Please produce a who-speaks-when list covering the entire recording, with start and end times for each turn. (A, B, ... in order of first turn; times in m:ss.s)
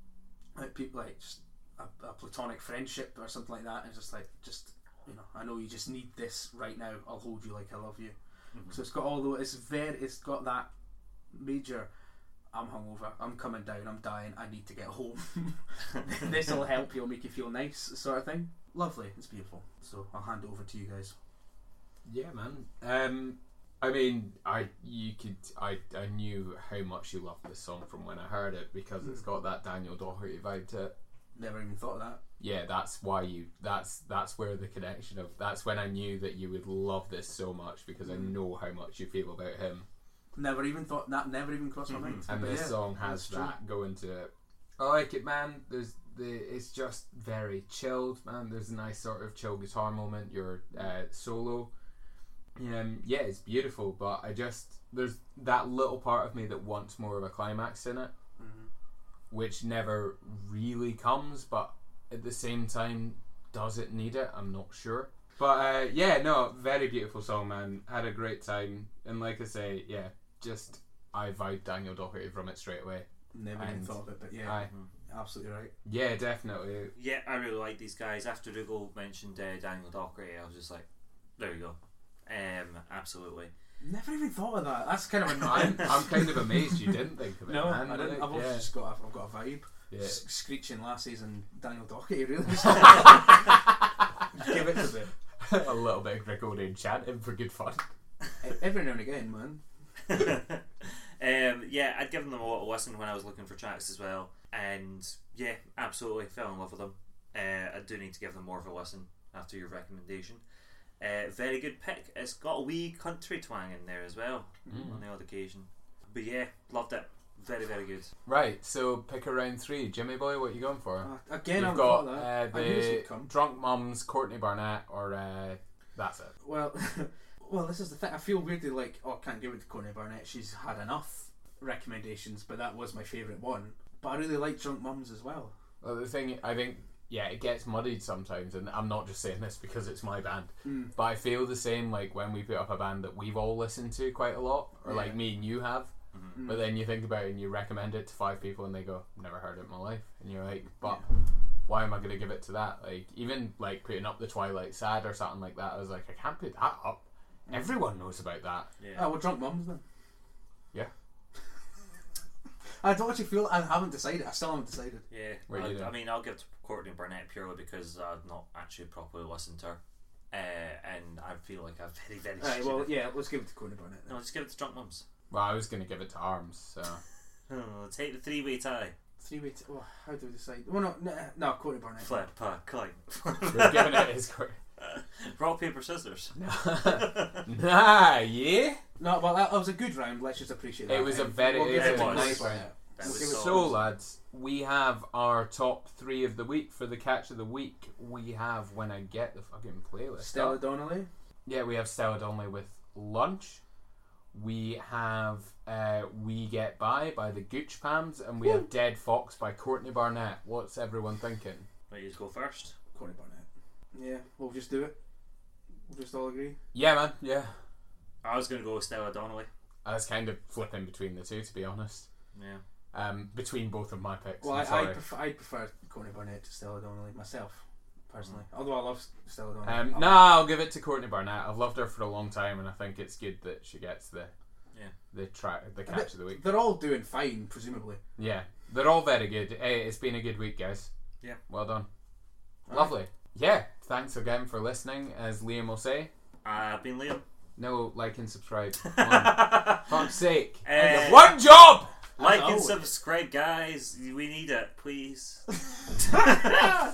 0:00.6-0:08.2 A
0:08.7-0:10.7 A
0:11.3-0:11.9 A
0:12.5-0:21.1 A
0:22.0-0:30.9 B
0:31.4-0:32.2 A
0:32.4-0:39.9 B
0:38.0-0:38.3 A
0:40.4-0:43.6 A
0:41.9-0:42.3 C
0:42.3-0:51.7 B
0:52.6-0:58.1 B
0:58.4-0:58.7 A
0:59.3-1:14.7 B
1:13.3-1:15.7 A
1:15.8-1:16.9 B
1:17.0-1:20.8 C
1:21.4-1:23.5 C
1:23.8-1:33.4 A
1:25.4-1:28.7 B
1:29.9-1:30.2 B
1:34.3-1:35.1 A
1:35.4-1:37.8 B
1:38.4-1:39.6 A
1:40.0-1:50.4 C
1:51.0-1:58.1 C
1:54.7-1:55.0 A
1:54.7-1:55.0 B
1:58.3-2:06.3 B
2:01.0-2:03.3 A
2:06.4-2:15.5 A
2:15.8-2:31.0 B
2:20.6-2:20.9 A
2:24.8-2:25.2 A
2:26.4-2:26.7 A
2:31.7-2:38.7 B
2:37.5-2:37.8 A
2:38.8-2:39.1 C
2:38.9-2:39.8 A
2:42.8-2:45.0 A
2:45.1-2:49.8 C
2:45.5-2:45.9 B
2:50.3-2:53.0 C
2:52.4-2:54.2 A
2:54.1-2:55.0 C
2:55.3-2:57.0 B
2:57.5-2:58.9 C
2:59.2-3:02.3 A
3:02.0-3:04.1 C
3:03.5-3:04.6 B
3:04.8-3:07.5 C
3:06.4-3:08.8 B
3:09.0-3:13.8 A
3:10.9-3:20.6 B
3:11.7-3:13.7 C
3:20.2-3:21.1 A
3:21.5-3:23.6 B
3:24.3-3:31.7 B
3:31.9-3:32.8 C
3:32.9-3:35.0 A
3:35.9-3:36.6 A
3:36.7-3:37.5 B
3:38.2-3:39.5 C
3:39.8-3:42.0 B
3:42.3-3:42.6 C
3:42.9-3:45.0 B
3:44.4-3:50.3 A
3:49.6-3:54.3 B
3:55.1-3:56.4 B
3:55.9-3:58.0 A
3:58.2-4:00.9 B
4:01.5-4:01.9 B
4:02.7-4:03.0 A
4:02.7-4:06.1 B
4:06.4-4:07.2 C
4:07.6-4:11.9 B
4:08.8-4:10.1 C
4:10.6-4:11.4 C
4:12.2-4:12.8 A
4:12.2-4:16.6 C